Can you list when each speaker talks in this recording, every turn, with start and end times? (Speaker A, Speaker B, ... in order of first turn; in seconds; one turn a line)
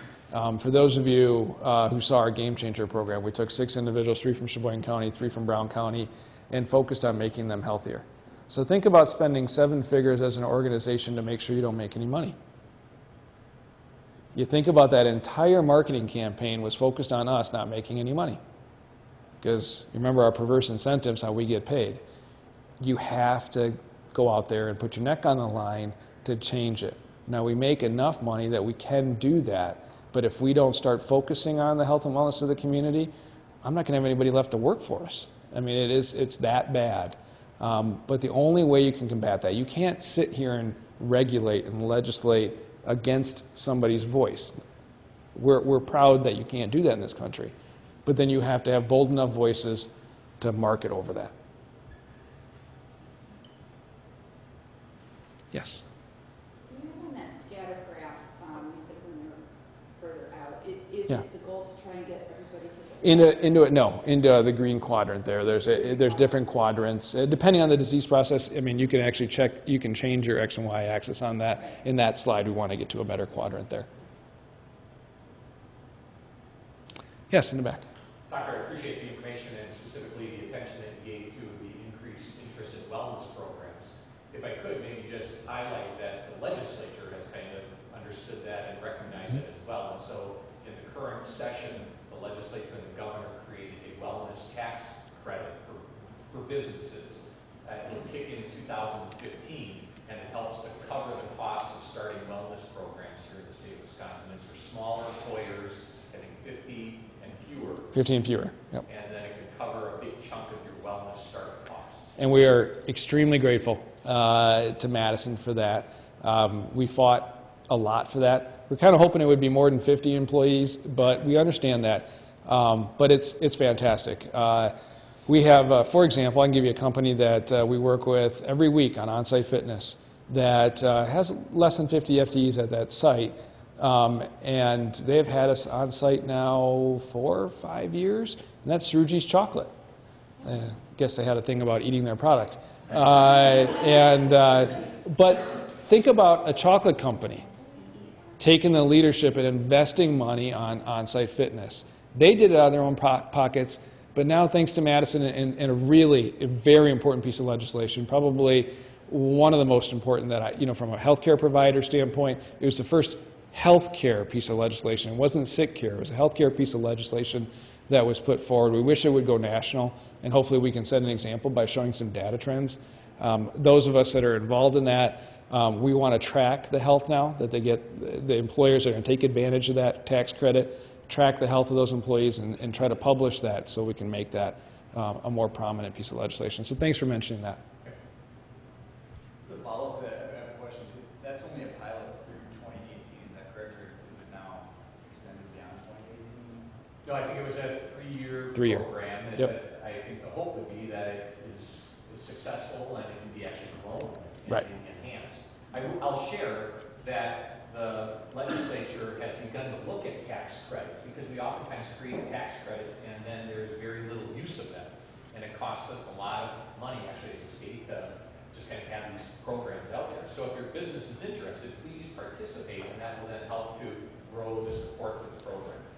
Speaker A: 0.3-12.4
Speaker A: 14.3-18.4
Speaker A: 19.4-22.0
Speaker A: 22.8-33.1
Speaker A: 33.6-44.6
Speaker A: 45.3-47.5
Speaker A: 48.0-51.3
Speaker A: 55.5-55.9
Speaker B: 56.7-59.4
Speaker B: 60.0-63.4
Speaker A: 63.0-73.9
Speaker A: 77.3-77.8
Speaker C: 78.3-107.9
Speaker A: 107.9-108.8
Speaker C: 108.8-112.1
Speaker A: 112.2-124.7
Speaker A: 125.3-139.7
Speaker A: 140.4-147.5
Speaker A: 148.4-187.6
Speaker D: 189.4-196.7
Speaker C: 197.0-225.8
Speaker A: 198.5-199.5